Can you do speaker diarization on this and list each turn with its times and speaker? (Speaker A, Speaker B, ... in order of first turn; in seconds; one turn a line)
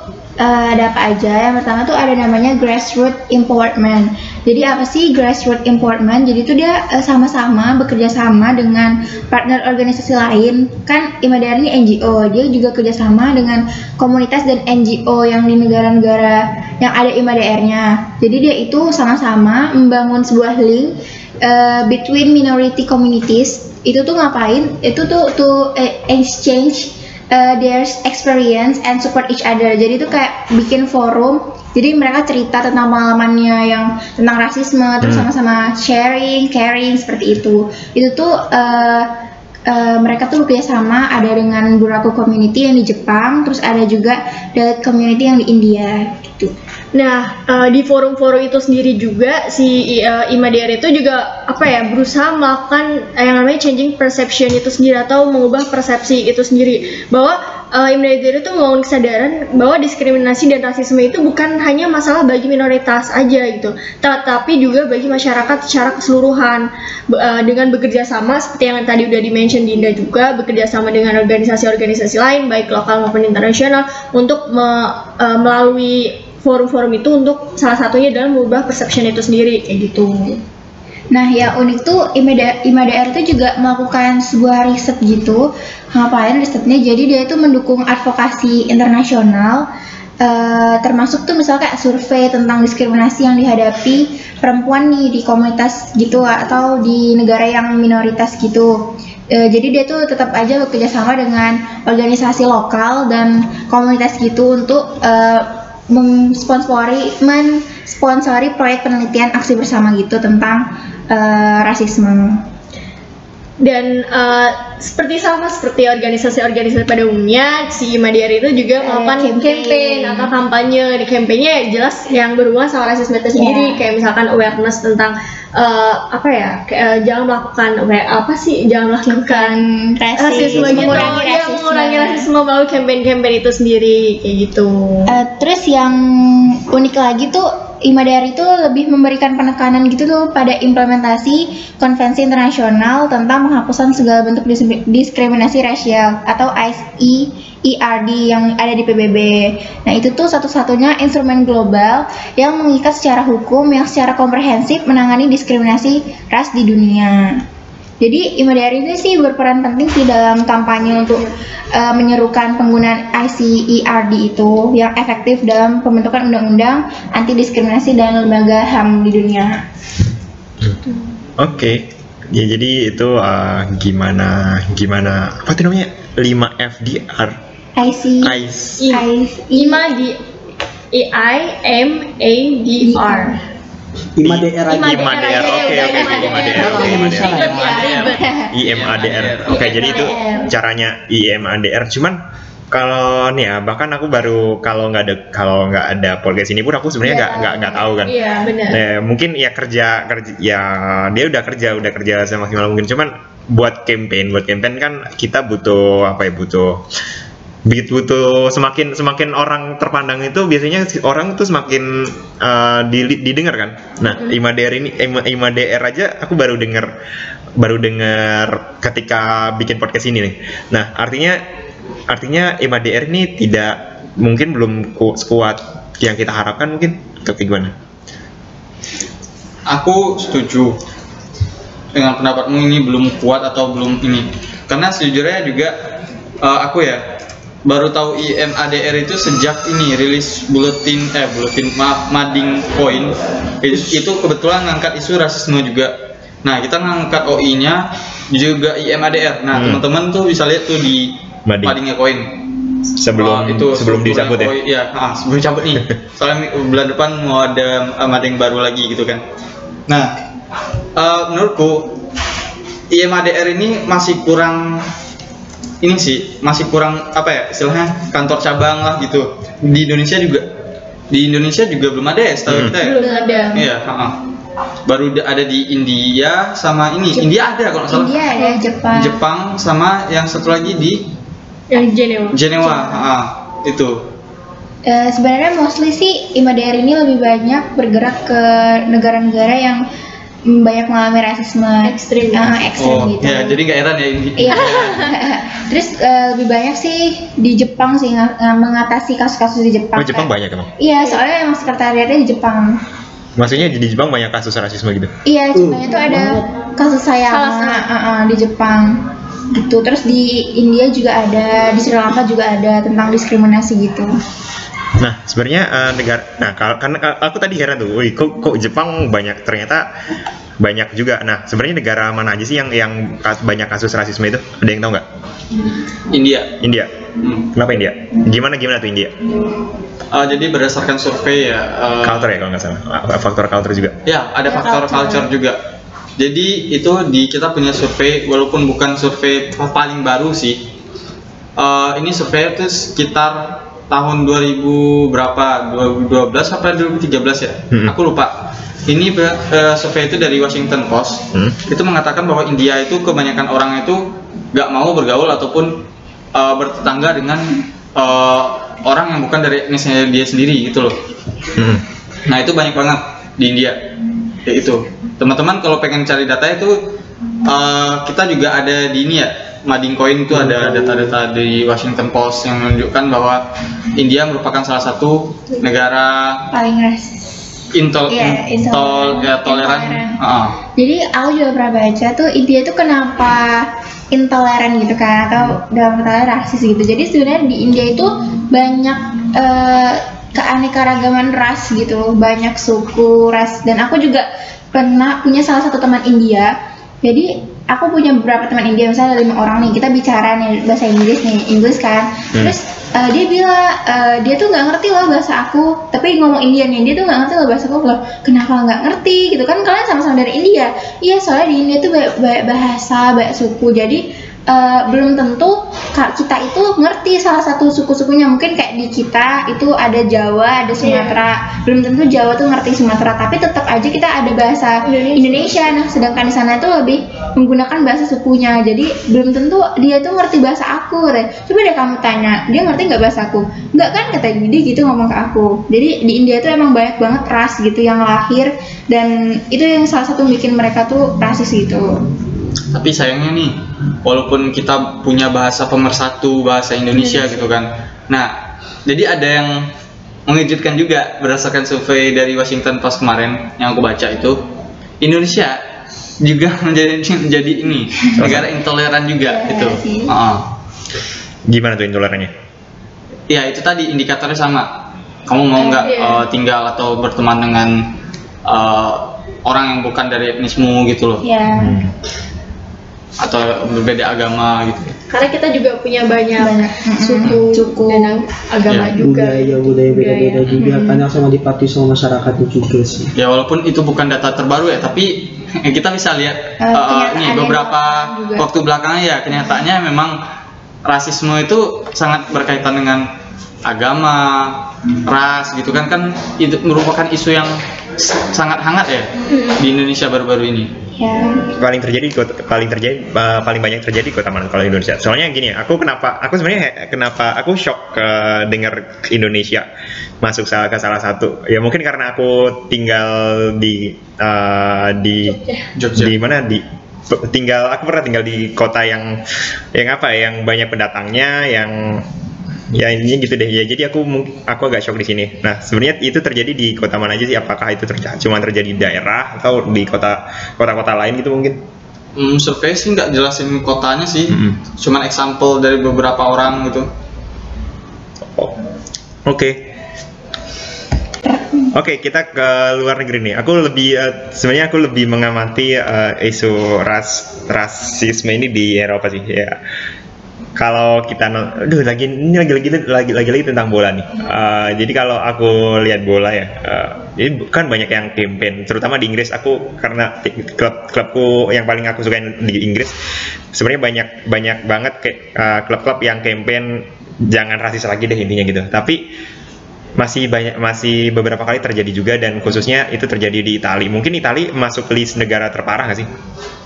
Speaker A: 0.4-39.1
Speaker B: 35.0-35.3
Speaker A: 39.7-46.5
Speaker C: 46.9-80.4
Speaker A: 81.1-89.7
Speaker A: 90.2-112.5
Speaker C: 113.6-129.6
Speaker A: 118.8-120.3
Speaker A: 123.3-123.8
Speaker A: 129.0-132.3
Speaker C: 130.2-135.1
Speaker A: 135.1-157.4
Speaker A: 158.0-169.6
Speaker B: 171.4-177.3
Speaker A: 177.8-178.3
Speaker B: 178.2-178.8
Speaker C: 178.8-180.2
Speaker A: 178.9-179.9
Speaker C: 180.9-183.4
Speaker A: 182.8-183.4
Speaker D: 184.2-185.2
Speaker B: 184.2-187.4
Speaker C: 184.7-188.2
Speaker E: 186.0-189.9
Speaker A: 186.2-188.5
Speaker D: 186.5-187.7
Speaker B: 188.5-192.2
Speaker C: 189.5-190.5
Speaker A: 190.0-190.5
Speaker B: 192.7-206.8
Speaker A: 197.0-198.3
Speaker C: 198.1-198.8
Speaker B: 207.7-216.9
Speaker B: 217.6-221.4
Speaker B: 222.1-227.7
Speaker E: 229.7-230.8
Speaker E: 231.9-235.7
Speaker E: 236.4-237.0
Speaker E: 237.6-252.3
Speaker B: 249.5-249.8
Speaker B: 251.5-251.8
Speaker B: 252.9-254.5
Speaker E: 253.1-259.2
Speaker E: 259.9-260.1
Speaker E: 260.9-262.0
Speaker E: 262.9-264.9
Speaker E: 265.8-270.4
Speaker E: 271.1-274.2
Speaker B: 272.5-272.8
Speaker C: 272.8-273.7
Speaker A: 272.9-273.7
Speaker E: 274.9-278.2
Speaker A: 277.9-279.2
Speaker C: 278.4-278.7
Speaker E: 278.9-281.1
Speaker C: 281.7-282.4
Speaker E: 282.3-284.0
Speaker A: 282.6-283.1
Speaker A: 284.9-289.8
Speaker A: 290.4-293.6
Speaker C: 291.8-292.6
Speaker E: 292.8-295.1
Speaker A: 294.4-302.8
Speaker C: 294.5-295.1
Speaker B: 300.0-300.7
Speaker B: 303.4-305.1
Speaker A: 305.2-314.1
Speaker D: 305.5-306.4
Speaker C: 307.3-307.9
Speaker B: 315.0-319.9
Speaker B: 320.6-325.0
Speaker E: 326.1-326.5
Speaker B: 326.6-326.9
Speaker E: 327.2-327.5
Speaker B: 327.5-329.1
Speaker E: 330.1-332.3
Speaker B: 332.0-333.9
Speaker E: 334.1-335.6
Speaker E: 336.2-340.6
Speaker E: 341.6-348.3
Speaker E: 348.9-355.8
Speaker E: 356.3-361.0
Speaker B: 361.6-361.8
Speaker E: 362.2-363.8
Speaker E: 364.4-373.4
Speaker D: 370.3-371.2
Speaker E: 373.9-376.5
Speaker A: 376.5-377.4
Speaker E: 377.7-380.5
Speaker A: 378.1-380.2
Speaker A: 380.8-396.5
Speaker A: 397.0-441.9
Speaker C: 420.8-421.2
Speaker C: 424.8-425.6
Speaker E: 442.7-449.7
Speaker E: 450.3-454.4
Speaker E: 455.0-455.6
Speaker E: 456.2-460.5
Speaker B: 458.1-458.5
Speaker A: 459.2-460.1
Speaker B: 461.5-462.3
Speaker E: 463.3-464.7
Speaker E: 465.2-467.9
Speaker A: 465.6-465.9
Speaker C: 465.8-466.2
Speaker E: 468.4-471.2
Speaker A: 471.2-471.7
Speaker B: 471.6-471.9
Speaker E: 473.2-474.9
Speaker C: 475.1-480.5
Speaker A: 476.4-478.1
Speaker E: 478.7-478.9
Speaker D: 479.0-483.1
Speaker A: 480.6-481.0
Speaker E: 483.2-490.1
Speaker A: 486.6-488.4
Speaker E: 490.8-493.1
Speaker E: 493.6-500.7
Speaker C: 499.3-499.6
Speaker A: 501.0-501.4
Speaker B: 501.5-509.6
Speaker B: 510.2-515.4
Speaker E: 515.8-516.1
Speaker B: 516.0-519.1
Speaker B: 519.7-522.1
Speaker B: 522.7-531.6
Speaker E: 532.1-536.9
Speaker B: 534.3-534.6
Speaker B: 539.2-539.6
Speaker A: 541.3-541.7
Speaker B: 541.7-549.6
Speaker B: 550.6-562.9
Speaker B: 563.5-569.0
Speaker B: 570.0-576.1